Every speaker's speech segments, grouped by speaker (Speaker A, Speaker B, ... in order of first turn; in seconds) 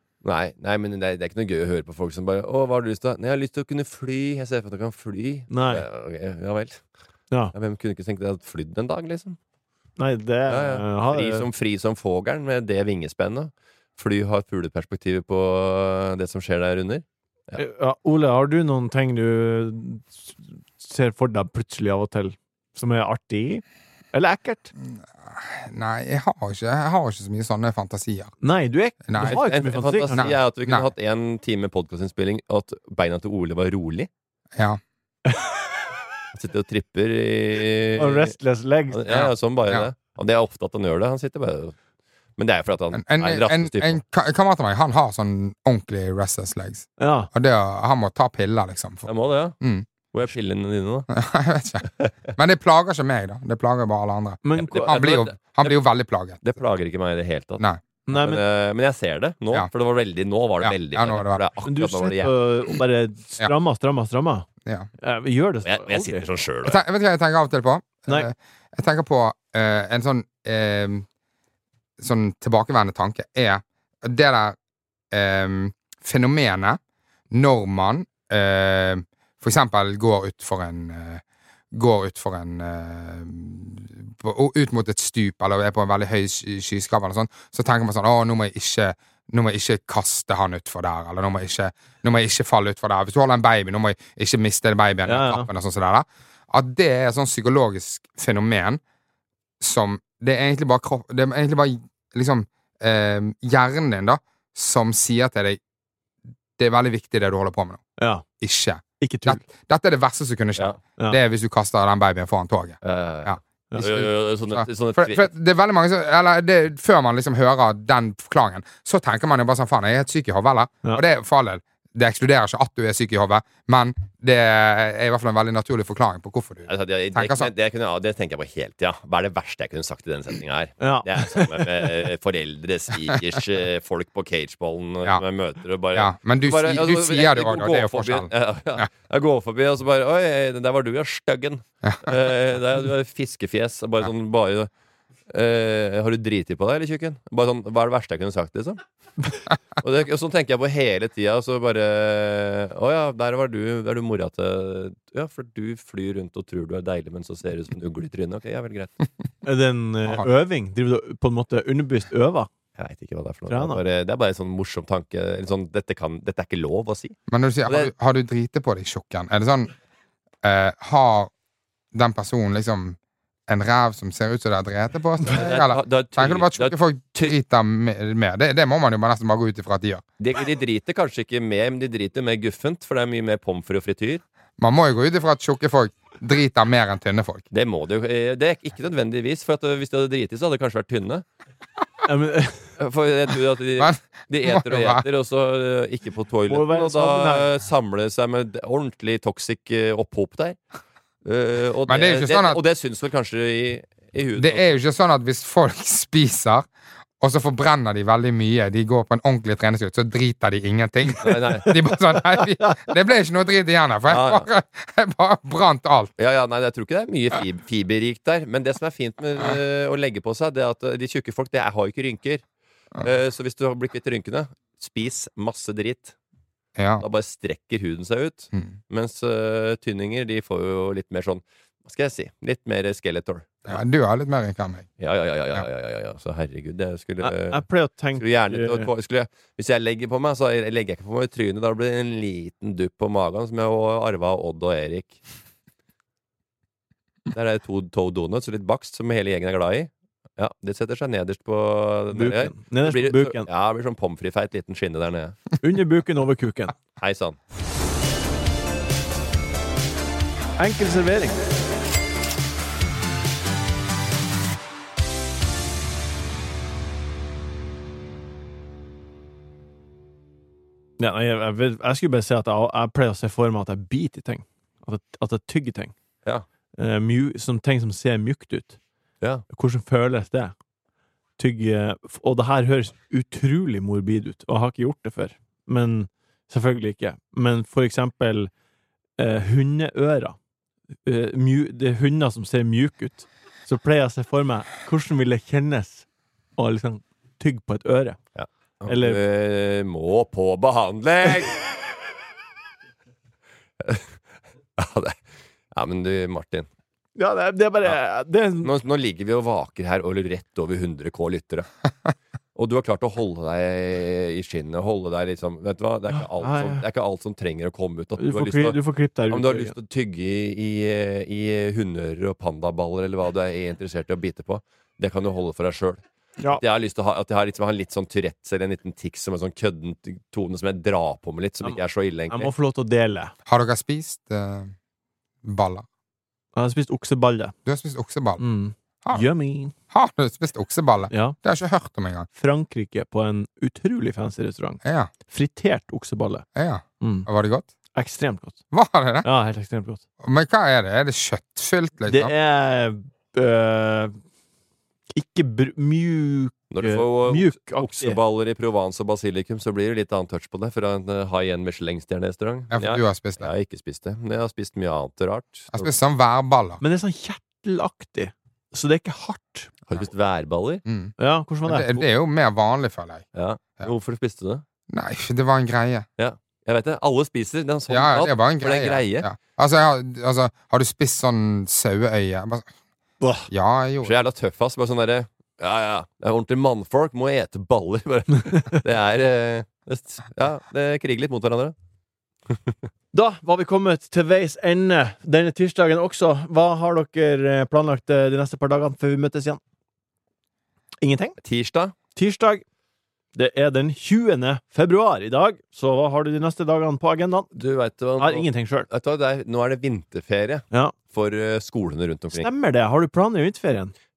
Speaker A: 0.2-6.8, 7.5-9.4, 10.5-17.6, 29.2-34.1, 36.3-38.3, 38.9-41.7, 42.4-44.0, 49.0-49.5, 50.1-51.1, 54.6-55.7, 56.4-62.3, 65.6-66.8, 112.8-115.3, 126.7-144.7, 145.3-148.8, 149.8-158.9, 162.8-167.9, 175.3-177.4, 180.2-184.2, 187.5-191.2, 192.8-200.6, 201.2-204.7, 211.2-211.8, 214.1-214.5, 216.2-222.4, 223.0-226.1, 227.0-233.8, 235.0-237.6, 238.2-245.2, 247.3-255.5, 257.0-257.4, 298.4-301.6, 303.8-304.1, 304.8-305.2, 305.7-306.7, 308.6-311.7, 312.6-318.8, 319.3-332.5, 356.7-365.9, 369.9-370.8, 373.3-374.6, 376.2-379.3, 384.0-391.7, 401.4-401.9, 407.5-412.5
Speaker B: 5.5-5.8, 10.0-11.4, 17.6-24.7, 28.4-30.3, 38.0-39.0, 47.0-47.3, 54.4-54.9, 58.1-58.4, 61.6-64.5, 65.0-66.2, 95.0-95.5, 108.0-108.2, 109.0-109.4, 130.8-131.7, 159.4-162.5, 163.5-163.8, 192.0-192.7, 196.5-197.5, 237.2-238.9, 252.1-253.5, 255.6-256.7, 260.6-261.4, 271.0-275.9, 276.8-278.8, 279.5-280.5, 281.4-288.5, 289.2-290.4, 291.0-296.1, 296.6-298.2, 298.9-299.2, 307.1-308.7, 316.1-316.8, 318.2-319.7, 332.3-333.3, 336.6-337.5, 338.4-339.7, 341.1-341.4, 342.3-346.4, 347.0-347.3, 347.9-348.6, 349.2-350.0, 352.1-354.1, 355.1-358.2, 366.8-369.7, 371.2-372.0, 383.2-383.5, 393.1-399.6, 401.0-401.4, 402.1-402.6, 403.3-407.5, 408.2-408.9, 412.3-413.9
Speaker C: 24.8-28.3, 29.1-29.4, 30.1-30.9, 39.1-39.9, 42.9-49.1, 49.6-49.9, 51.1-56.4, 60.6-61.4, 66.6-71.0, 72.0-74.5, 75.1-76.8, 77.3-98.8, 99.6-105.6, 106.6-107.8, 108.4-127.5, 135.9-138.9, 167.3-169.7, 170.4-171.3, 171.9-173.0, 173.5-180.0, 184.6-187.4, 193.8-195.0, 201.9-202.6, 204.4-206.7, 207.2-216.1, 226.8-227.0, 233.7-234.8, 333.5-334.7, 335.4-335.8, 337.6-338.4, 339.9-342.3, 344.8-345.1, 346.6-347.7, 348.7-349.2, 350.2-352.3, 362.7-363.5, 365.7-366.8, 370.8-371.1, 371.6-373.2, 374.9-376.1, 377.9-382.7, 383.5-384.2